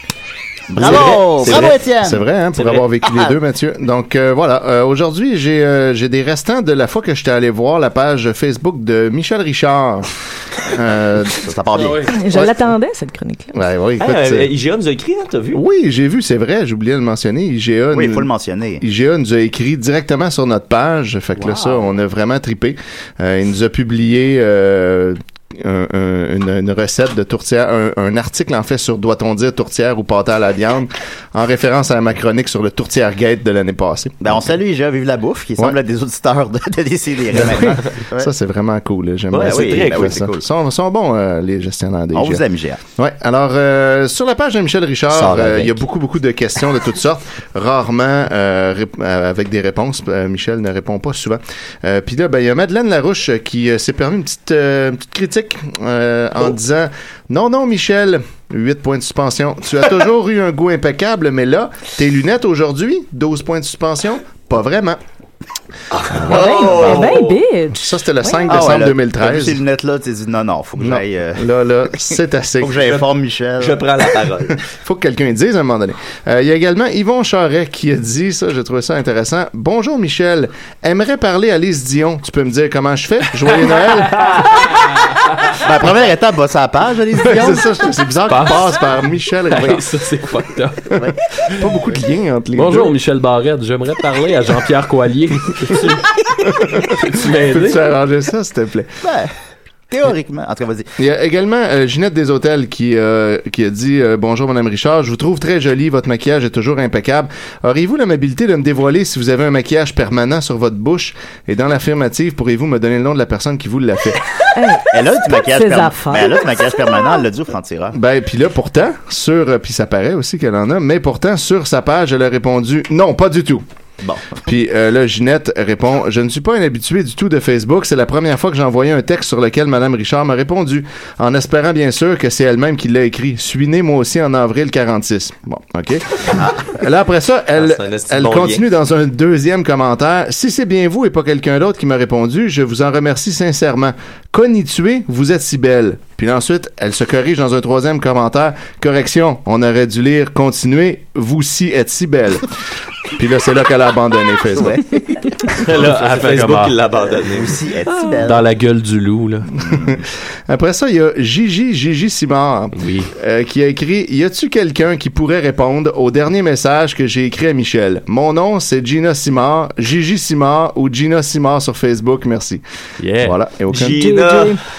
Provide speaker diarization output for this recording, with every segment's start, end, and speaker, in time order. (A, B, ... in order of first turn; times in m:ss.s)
0:00.7-0:02.2 A
0:00.8-0:01.8 B
0:00.8-0:10.1 C
0:02.5-0:02.8 B
0:03.0-0:03.3 A
0:10.6-0:11.4 C
0:11.4-0:12.0 A
0:11.7-0:12.1 D
0:12.0-0:13.5 E
0:13.5-0:14.5 C
0:14.0-0:15.6 B
0:15.5-0:18.3 C
0:17.9-0:18.8 A
0:18.8-0:34.4 C
0:21.4-0:21.8 A
0:34.2-0:38.3 A
0:37.3-0:42.4 C
0:39.3-0:40.2 B
0:39.3-0:40.4 A
0:42.1-0:42.8 A
0:43.0-1:05.0 C
0:45.1-0:45.8 B
1:05.9-1:07.4 B
1:06.1-1:06.7 C
1:06.3-1:07.0 A
1:06.4-1:08.6 E
1:07.7-1:09.6 C
1:08.5-1:11.5 A
1:10.8-1:12.9 C
1:12.6-1:13.8 A
1:13.6-1:14.6 B
1:14.7-1:24.3 C
1:24.1-1:25.3 D
1:25.6-1:27.6 A
1:27.3-1:29.9 C
1:28.3-1:28.7 D
1:29.5-1:31.5 D
1:31.0-1:32.9 C
1:32.5-1:36.0 D
1:36.8-1:38.9 C
1:37.0-1:37.8 D
1:39.0-1:39.3 A
1:39.9-1:40.9 A
1:41.0-1:54.2 C
1:54.5-1:57.2 E
1:54.9-1:58.0 A
1:57.9-2:03.6 C
2:04.0-2:04.4 A
2:04.4-2:32.4 C
2:17.6-2:18.6 B
2:33.1-2:34.8 C
2:34.5-2:34.8 A
2:35.5-2:36.8 D
2:35.7-2:37.6 B
2:37.1-2:38.5 A
2:37.8-2:38.3 E
2:38.2-2:39.5 D
2:39.6-2:40.0 A
2:39.7-2:52.6 C
2:42.8-2:43.1 D
2:53.0-2:53.4 D
2:53.2-2:54.1 C
2:53.7-2:54.6 B
2:53.9-2:54.6 E